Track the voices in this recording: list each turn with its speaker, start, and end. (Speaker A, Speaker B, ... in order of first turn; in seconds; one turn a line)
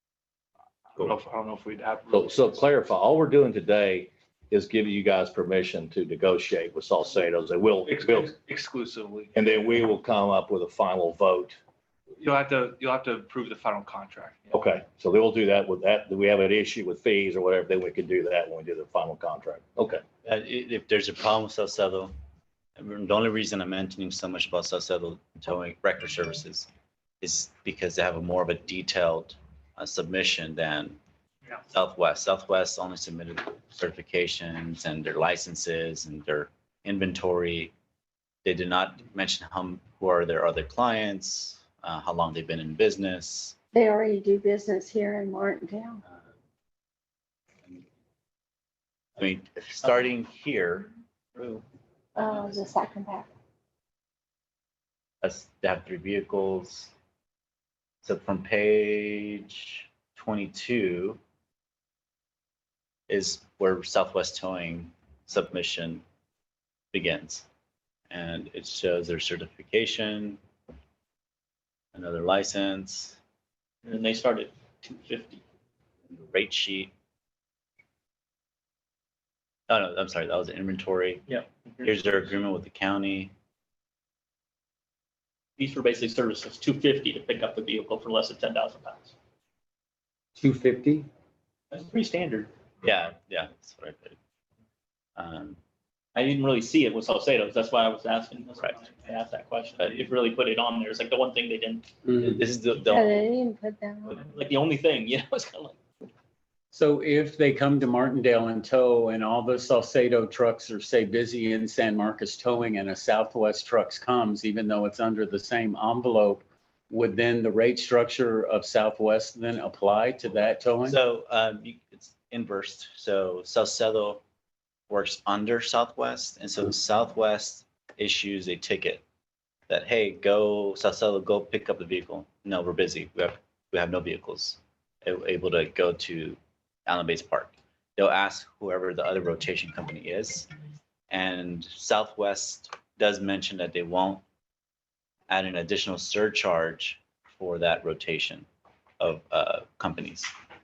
Speaker A: 0.9-2.7
Speaker B: 2.1-8.3
Speaker A: 7.8-9.7
Speaker B: 9.3-11.6
Speaker A: 12.2-14.7
Speaker B: 14.5-20.0
Speaker C: 20.2-22.1
Speaker C: 22.8-26.7
Speaker C: 27.2-31.0
Speaker C: 31.7-37.7
Speaker C: 38.4-43.6
Speaker D: 43.7-46.0
Speaker C: 46.1-46.3
Speaker C: 49.2-50.9
Speaker E: 51.4-51.6
Speaker D: 52.1-53.3
Speaker C: 55.2-56.9
Speaker C: 58.0-61.2
Speaker C: 63.1-66.0
Speaker C: 66.9-67.5
Speaker C: 68.1-70.4
Speaker C: 71.9-73.2
Speaker E: 73.8-75.4
Speaker C: 76.1-76.9
Speaker C: 79.7-81.2
Speaker E: 81.3-82.0
Speaker C: 81.8-83.3
Speaker E: 85.6-89.1
Speaker F: 90.4-91.1
Speaker E: 91.7-92.5
Speaker C: 92.8-94.2
Speaker C: 95.2-95.6
Speaker E: 96.1-101.9
Speaker F: 102.0-102.4
Speaker C: 102.2-103.3
Speaker D: 102.8-104.2
Speaker E: 104.1-105.8
Speaker F: 106.7-121.0
Speaker C: 120.8-124.2
Speaker C: 124.9-129.0
Speaker C: 129.7-140.5
Speaker C: 141.1-144.2
Speaker C: 145.3-148.5
Speaker C: 149.0-150.3